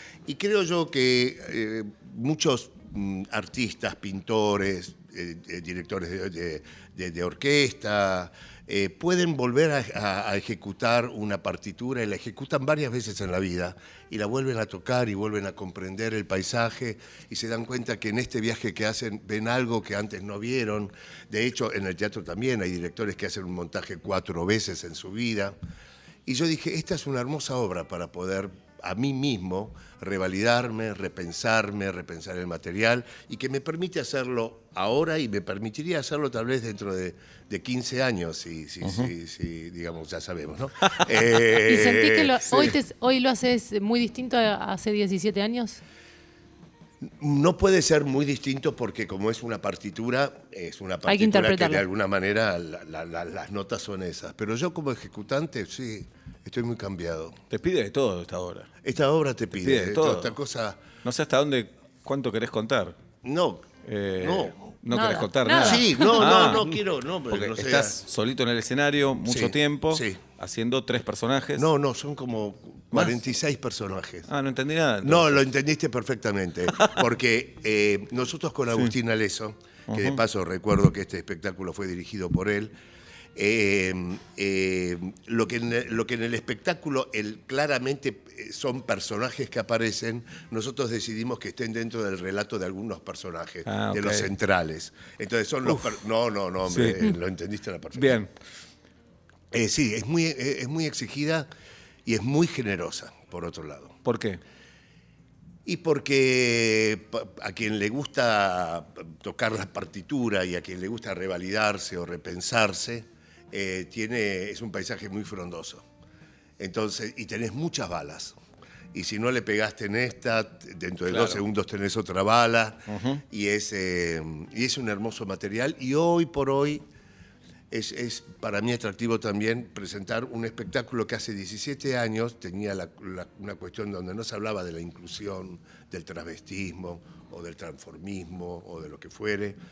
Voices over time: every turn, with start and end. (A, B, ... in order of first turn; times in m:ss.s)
0:00.3-0:25.6 A
0:26.3-0:42.8 A
0:38.8-0:39.1 B
0:41.6-0:45.8 C
0:47.0-0:57.4 A
0:51.1-0:51.8 C
0:57.5-0:58.7 B
0:58.8-1:00.8 A
0:59.6-1:00.4 B
1:01.0-1:03.0 B
1:03.2-1:03.7 A
1:03.8-1:06.7 B
1:04.2-1:04.7 A
1:04.9-1:06.6 C
1:05.5-1:08.0 A
1:07.3-1:11.7 B
1:09.2-1:10.2 A
1:11.6-1:14.3 A
1:12.9-1:13.2 B
1:14.3-1:15.4 B
1:15.0-1:22.7 A
1:19.9-1:20.2 B
1:23.4-1:38.2 A
1:33.7-1:34.3 B
1:36.7-1:37.2 B
1:38.0-1:38.3 B
1:39.5-1:41.5 A
1:42.1-1:44.0 A
1:44.0-1:44.4 B
1:45.6-1:55.9 A
1:56.6-1:58.4 A
1:58.9-2:06.8 A
2:01.1-2:01.4 B
2:02.9-2:03.2 B
2:07.7-2:19.6 A